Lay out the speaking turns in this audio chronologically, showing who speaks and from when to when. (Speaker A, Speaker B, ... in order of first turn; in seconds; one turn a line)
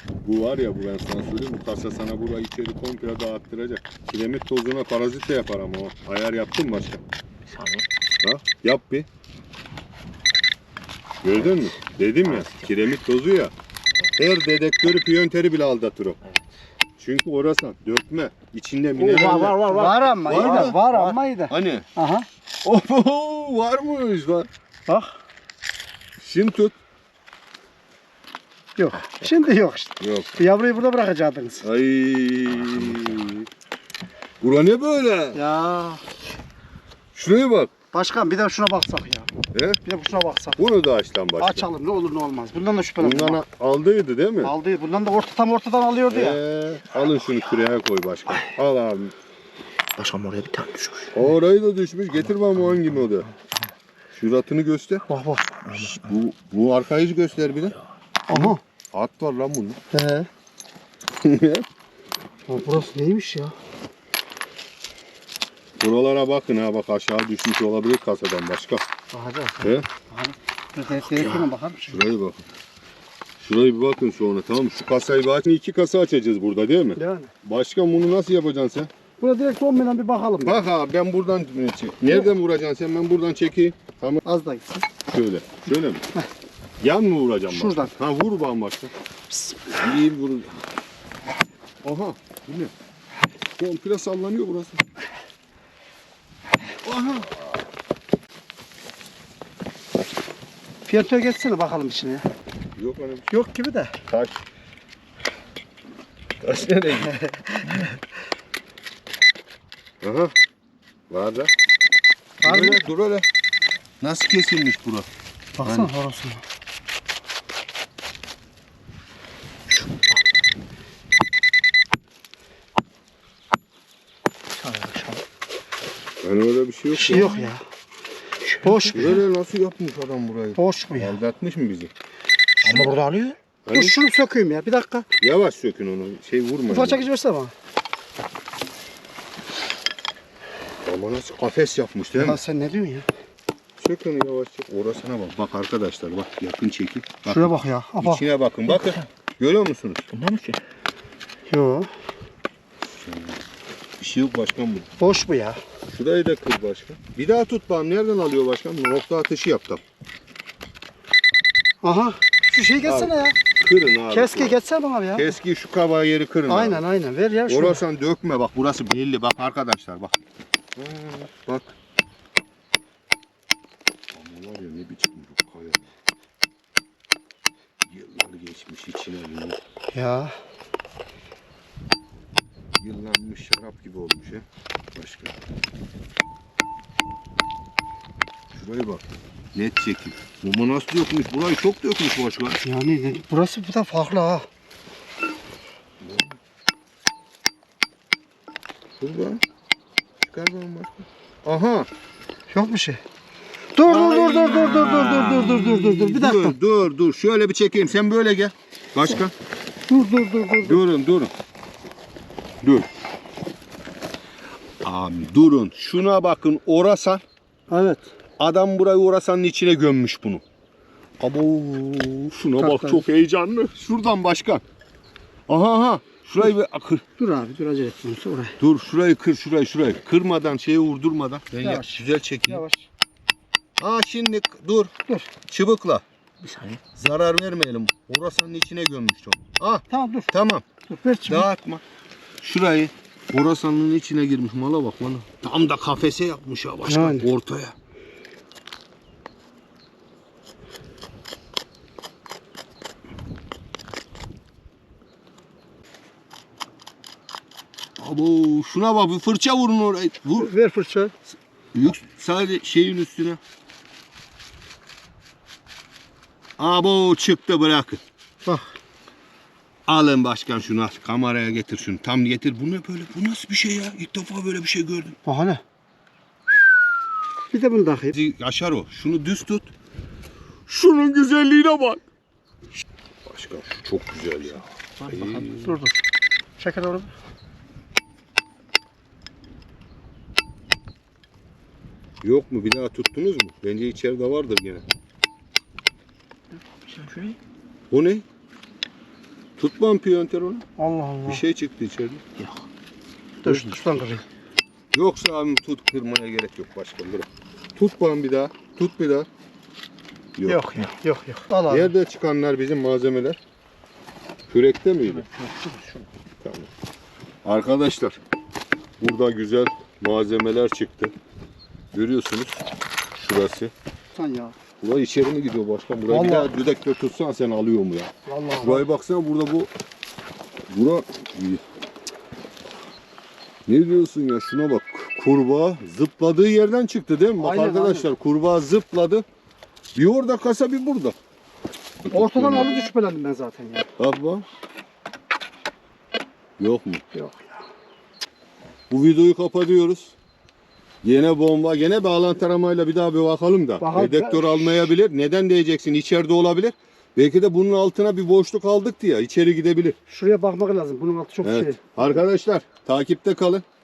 Speaker A: 0.2-7.0
Speaker B: 7.5-7.8
Speaker A: 8.2-9.1
Speaker A: 11.2-13.5
Speaker A: 14.1-16.2
Speaker A: 17.0-21.9
Speaker B: 19.0-20.0
Speaker C: 19.7-22.3
Speaker A: 22.6-24.5
Speaker C: 24.9-25.2
Speaker A: 26.2-26.8
Speaker C: 28.8-31.7
Speaker A: 30.0-30.4
Speaker A: 31.6-33.5
Speaker A: 34.4-35.4
Speaker C: 35.3-36.0
Speaker A: 37.1-37.7
Speaker C: 37.9-39.3
Speaker A: 39.5-39.8
Speaker C: 39.8-40.6
Speaker A: 40.6-41.7
Speaker C: 41.4-43.4
Speaker A: 43.0-44.5
Speaker C: 44.4-46.4
Speaker A: 46.1-49.1
Speaker B: 50.0-51.1
Speaker A: 51.1-53.3
Speaker A: 54.1-55.1
Speaker C: 55.1-55.6
Speaker B: 55.6-56.1
Speaker A: 55.8-57.8
Speaker C: 58.3-58.6
Speaker A: 58.3-59.8
Speaker C: 59.9-60.3
Speaker A: 61.2-61.6
Speaker C: 62.5-63.5
Speaker A: 65.8-68.8
Speaker C: 69.1-72.0
Speaker A: 69.6-69.9
Speaker A: 71.0-72.4
Speaker A: 73.4-78.9
Speaker C: 77.0-77.3
Speaker C: 79.2-80.7
Speaker A: 80.4-84.2
Speaker C: 84.2-84.9
Speaker A: 85.0-86.0
Speaker A: 86.8-88.9
Speaker C: 87.5-87.9
Speaker A: 89.7-90.6
Speaker A: 91.8-92.7
Speaker A: 93.6-94.8
Speaker A: 96.8-97.4
Speaker C: 100.9-102.3
Speaker A: 102.8-103.3
Speaker C: 103.3-104.0
Speaker A: 104.1-104.4
Speaker A: 106.4-107.9
Speaker A: 110.0-110.3
Speaker A: 111.1-111.5
Speaker C: 112.4-112.9
Speaker A: 112.4-113.3
Speaker A: 114.0-115.1
Speaker C: 115.6-116.4
Speaker A: 115.6-115.9
Speaker C: 124.6-125.2
Speaker A: 126.2-127.3
Speaker C: 126.9-127.6
Speaker C: 128.6-129.2
Speaker A: 128.9-131.9
Speaker C: 130.6-131.2
Speaker C: 132.6-135.1
Speaker A: 133.7-133.9
Speaker A: 135.2-137.1
Speaker C: 136.7-137.5
Speaker A: 140.8-142.4
Speaker C: 142.2-143.1
Speaker A: 143.8-150.1
Speaker C: 147.3-148.2
Speaker B: 150.1-150.6
Speaker C: 151.5-151.9
Speaker A: 152.9-153.4
Speaker A: 154.0-154.9
Speaker C: 155.0-155.6
Speaker A: 155.9-159.8
Speaker C: 161.8-163.4
Speaker A: 162.8-164.6
Speaker C: 164.1-165.3
Speaker A: 165.2-166.8
Speaker C: 166.5-167.8
Speaker A: 167.5-170.2
Speaker A: 170.8-171.7
Speaker A: 174.1-175.9
Speaker A: 177.8-179.6
Speaker C: 179.9-180.3
Speaker A: 182.8-185.4
Speaker A: 188.5-192.6
Speaker C: 192.6-194.5
Speaker A: 196.0-196.4
Speaker A: 199.0-199.4
Speaker A: 200.2-201.9
Speaker C: 202.5-203.0
Speaker C: 203.7-206.6
Speaker A: 203.8-209.3
Speaker C: 209.9-210.8
Speaker A: 210.6-211.3
Speaker A: 212.6-212.9
Speaker A: 214.8-217.2
Speaker C: 217.7-218.1
Speaker A: 218.4-220.4
Speaker A: 221.2-224.6
Speaker C: 222.6-223.1
Speaker A: 225.5-227.0
Speaker C: 227.2-228.6
Speaker A: 228.6-232.6
Speaker C: 231.6-232.9
Speaker A: 233.8-234.9
Speaker A: 235.5-236.0
Speaker A: 236.9-240.6
Speaker C: 239.9-240.3
Speaker C: 240.9-241.5
Speaker A: 241.2-241.8
Speaker A: 242.4-247.8
Speaker C: 246.8-247.3
Speaker A: 258.0-260.5
Speaker C: 260.4-261.1
Speaker A: 261.7-263.4
Speaker A: 266.6-268.0
Speaker C: 268.4-268.7
Speaker A: 269.9-275.2
Speaker C: 275.2-275.6
Speaker C: 277.5-278.2
Speaker A: 278.1-279.7
Speaker A: 280.7-282.0
Speaker A: 283.3-285.8
Speaker C: 285.5-286.0
Speaker C: 286.6-287.1
Speaker A: 292.2-294.9
Speaker B: 296.9-297.4
Speaker A: 297.9-298.2
Speaker A: 299.6-300.6
Speaker C: 300.8-301.4
Speaker A: 301.3-302.2
Speaker C: 303.4-304.2
Speaker A: 303.4-303.8
Speaker A: 304.9-309.3
Speaker A: 310.4-310.6
Speaker C: 310.5-311.9
Speaker A: 311.7-313.4
Speaker A: 314.5-315.3
Speaker A: 316.4-316.7
Speaker A: 317.4-318.2
Speaker A: 319.0-321.1
Speaker A: 321.9-323.7
Speaker C: 324.1-324.6
Speaker A: 324.8-329.7
Speaker C: 326.1-326.5
Speaker C: 328.3-328.9
Speaker A: 330.7-331.6
Speaker A: 333.7-339.2
Speaker C: 337.4-338.1
Speaker A: 339.9-341.2
Speaker A: 342.1-342.8
Speaker C: 342.1-343.9
Speaker A: 344.0-344.4
Speaker A: 346.6-347.0
Speaker C: 347.1-347.6
Speaker A: 348.9-350.2
Speaker A: 351.0-360.0
Speaker C: 353.8-354.9
Speaker C: 360.1-362.2
Speaker A: 361.4-363.6